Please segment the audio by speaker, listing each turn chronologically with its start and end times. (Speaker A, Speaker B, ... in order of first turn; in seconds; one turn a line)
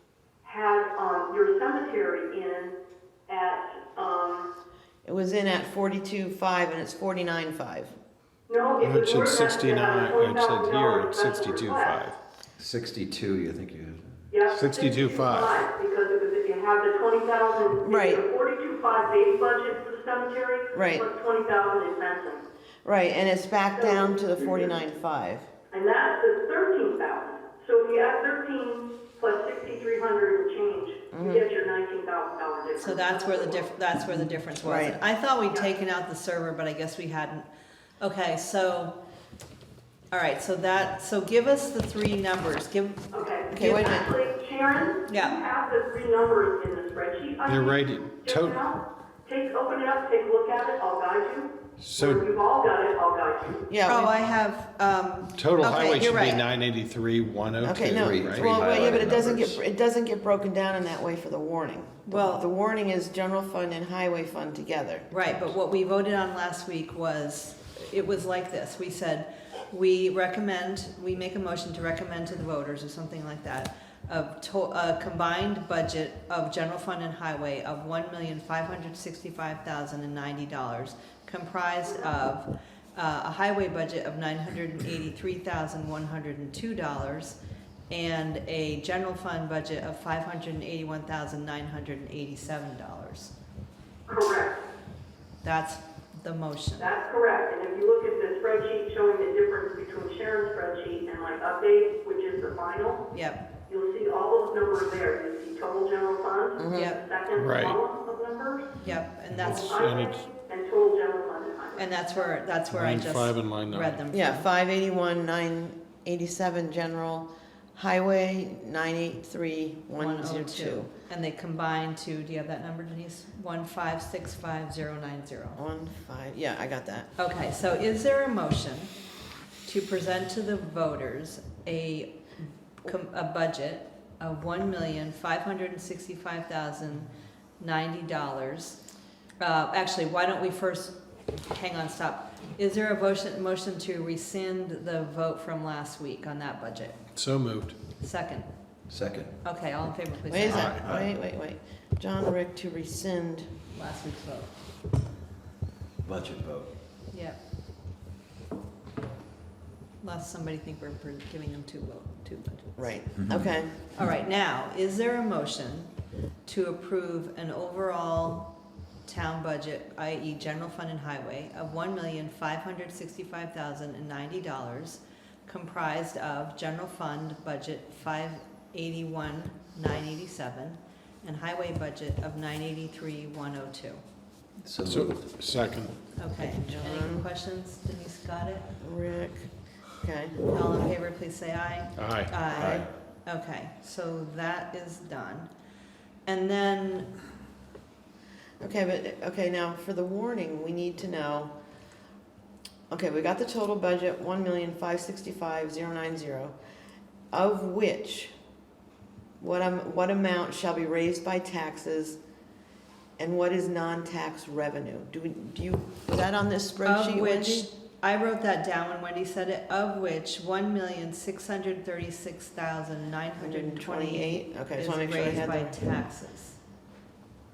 Speaker A: 0.4-2.8
Speaker A: 3.3-4.5
Speaker B: 5.0-7.9
Speaker A: 8.5-12.0
Speaker C: 8.8-12.2
Speaker D: 12.6-14.1
Speaker A: 14.3-22.4
Speaker C: 14.4-15.6
Speaker B: 17.8-18.2
Speaker B: 20.7-21.1
Speaker B: 22.9-25.5
Speaker A: 23.7-24.8
Speaker A: 25.7-33.7
Speaker B: 31.1-31.4
Speaker E: 32.8-37.4
Speaker B: 34.6-35.0
Speaker E: 38.0-38.9
Speaker E: 40.1-43.7
Speaker A: 43.1-53.7
Speaker B: 43.5-44.1
Speaker E: 45.1-45.4
Speaker C: 47.5-48.6
Speaker C: 51.8-52.2
Speaker B: 53.7-54.1
Speaker E: 53.9-56.4
Speaker C: 55.4-58.6
Speaker B: 55.9-56.4
Speaker B: 57.6-65.1
Speaker D: 58.0-59.6
Speaker E: 62.1-62.4
Speaker E: 65.1-87.4
Speaker E: 87.9-93.3
Speaker A: 94.1-94.6
Speaker E: 95.4-96.9
Speaker A: 96.8-103.1
Speaker E: 103.1-103.5
Speaker A: 103.7-108.7
Speaker B: 106.6-106.9
Speaker E: 106.7-107.0
Speaker C: 107.3-107.8
Speaker E: 108.8-109.9
Speaker C: 108.8-110.3
Speaker A: 109.4-112.0
Speaker E: 111.8-114.5
Speaker C: 112.7-114.0
Speaker B: 114.1-120.9
Speaker E: 120.0-125.6
Speaker B: 125.6-127.1
Speaker E: 127.2-128.9
Speaker E: 129.7-132.2
Speaker E: 132.8-138.8
Speaker E: 139.4-147.0
Speaker C: 147.2-147.8
Speaker E: 148.0-148.5
Speaker D: 148.9-149.4
Speaker E: 149.4-150.8
Speaker B: 150.3-153.5
Speaker C: 150.5-150.8
Speaker D: 150.6-151.1
Speaker E: 153.7-154.5
Speaker D: 156.0-156.7
Speaker E: 157.1-157.4
Speaker E: 160.0-162.8
Speaker B: 162.8-163.8
Speaker E: 163.9-165.9
Speaker E: 166.4-168.5
Speaker E: 169.1-184.0
Speaker D: 184.7-185.3
Speaker C: 184.8-185.9
Speaker E: 186.2-188.7
Speaker B: 186.4-187.3
Speaker B: 188.8-189.5
Speaker B: 190.0-190.4
Speaker E: 190.5-195.5
Speaker C: 192.0-192.8
Speaker B: 192.5-192.9
Speaker E: 196.3-197.1
Speaker B: 198.6-201.5
Speaker B: 202.9-206.6
Speaker B: 207.3-208.3
Speaker B: 209.4-212.2
Speaker B: 213.2-217.7
Speaker E: 216.8-226.6
Speaker B: 223.4-226.0